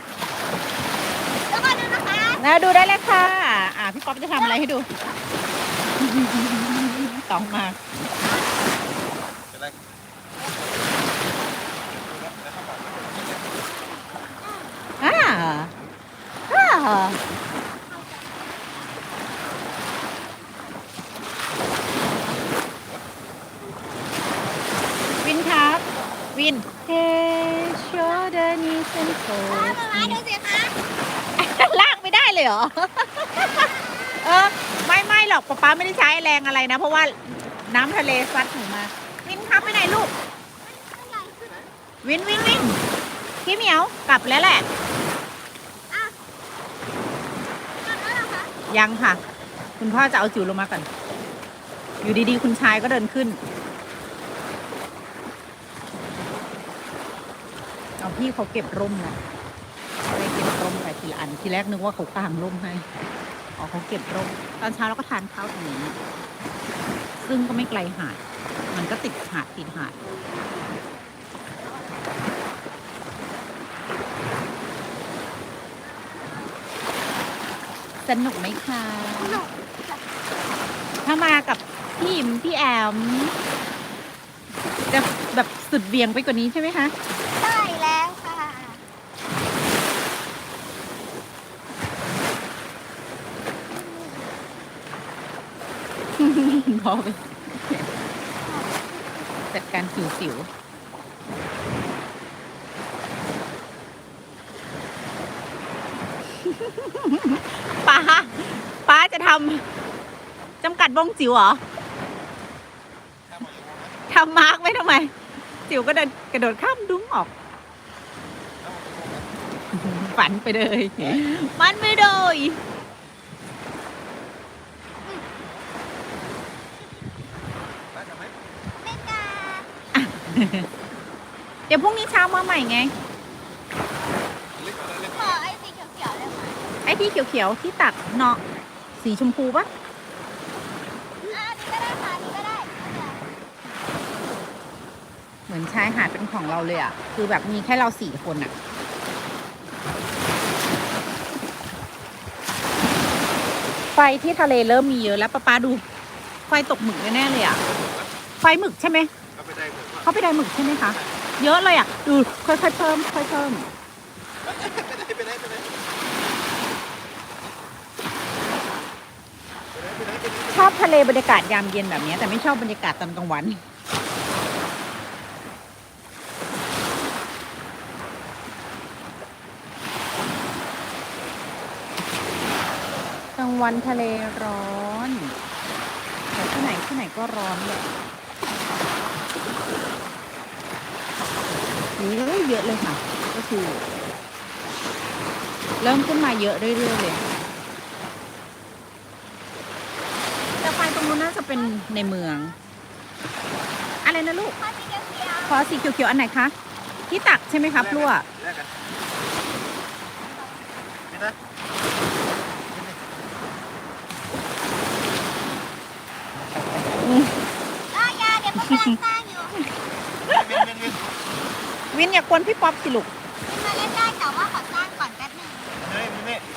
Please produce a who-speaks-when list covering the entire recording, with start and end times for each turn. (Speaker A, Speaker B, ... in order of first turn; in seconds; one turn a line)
Speaker A: 1.5-2.4
Speaker B: 2.4-4.9
Speaker A: 4.4-4.8
Speaker B: 6.0-7.8
Speaker A: 8.2-8.7
Speaker C: 9.5-9.8
Speaker C: 12.1-13.6
Speaker A: 14.4-14.7
Speaker B: 15.0-15.7
Speaker B: 16.5-17.2
Speaker A: 17.9-18.9
Speaker A: 23.6-24.0
Speaker B: 25.2-25.8
Speaker B: 26.3-30.2
Speaker A: 27.7-28.3
Speaker A: 29.5-30.7
Speaker B: 31.4-40.1
Speaker A: 39.6-39.9
Speaker A: 40.6-41.4
Speaker B: 42.0-42.8
Speaker A: 42.2-42.8
Speaker B: 43.4-44.7
Speaker A: 47.8-48.5
Speaker B: 48.7-49.2
Speaker B: 49.8-50.9
Speaker B: 52.0-53.4
Speaker B: 58.0-59.2
Speaker B: 60.1-62.8
Speaker B: 63.6-66.0
Speaker B: 67.2-68.2
Speaker B: 68.7-69.9
Speaker A: 70.1-70.8
Speaker A: 76.0-76.5
Speaker B: 78.1-79.4
Speaker A: 79.1-80.0
Speaker B: 81.0-83.3
Speaker B: 84.9-86.9
Speaker A: 87.4-88.8
Speaker A: 93.7-94.3
Speaker B: 96.2-97.9
Speaker A: 98.4-99.1
Speaker B: 99.5-100.5
Speaker B: 106.3-109.6
Speaker B: 110.6-111.6
Speaker C: 113.3-114.0
Speaker B: 114.1-115.1
Speaker B: 115.7-117.3
Speaker C: 118.6-119.3
Speaker B: 119.7-122.6
Speaker C: 127.9-128.3
Speaker A: 128.8-129.7
Speaker B: 129.9-130.7
Speaker B: 131.7-132.9
Speaker C: 134.6-135.4
Speaker A: 135.1-136.6
Speaker B: 136.8-138.4
Speaker B: 139.0-139.7
Speaker A: 141.2-143.2
Speaker B: 145.5-148.5
Speaker A: 146.5-146.9
Speaker B: 153.9-155.8
Speaker B: 156.5-157.6
Speaker C: 157.6-158.1
Speaker B: 158.4-159.1
Speaker C: 159.3-160.1
Speaker B: 160.0-163.7
Speaker C: 164.4-165.7
Speaker C: 169.7-170.7
Speaker B: 170.5-173.6
Speaker B: 183.4-185.3
Speaker B: 186.3-187.8
Speaker B: 192.0-193.8
Speaker B: 195.8-197.2
Speaker B: 200.6-202.6
Speaker A: 201.4-202.6
Speaker B: 204.0-204.6
Speaker A: 204.5-205.6
Speaker B: 205.5-206.5
Speaker B: 207.1-208.2
Speaker C: 207.8-208.7
Speaker A: 210.2-210.7
Speaker C: 211.1-211.3
Speaker B: 217.0-217.3
Speaker A: 217.9-219.6
Speaker B: 218.6-218.9
Speaker B: 220.3-220.8
Speaker C: 220.3-221.0
Speaker B: 221.9-223.1
Speaker A: 223.4-225.9
Speaker C: 225.8-226.4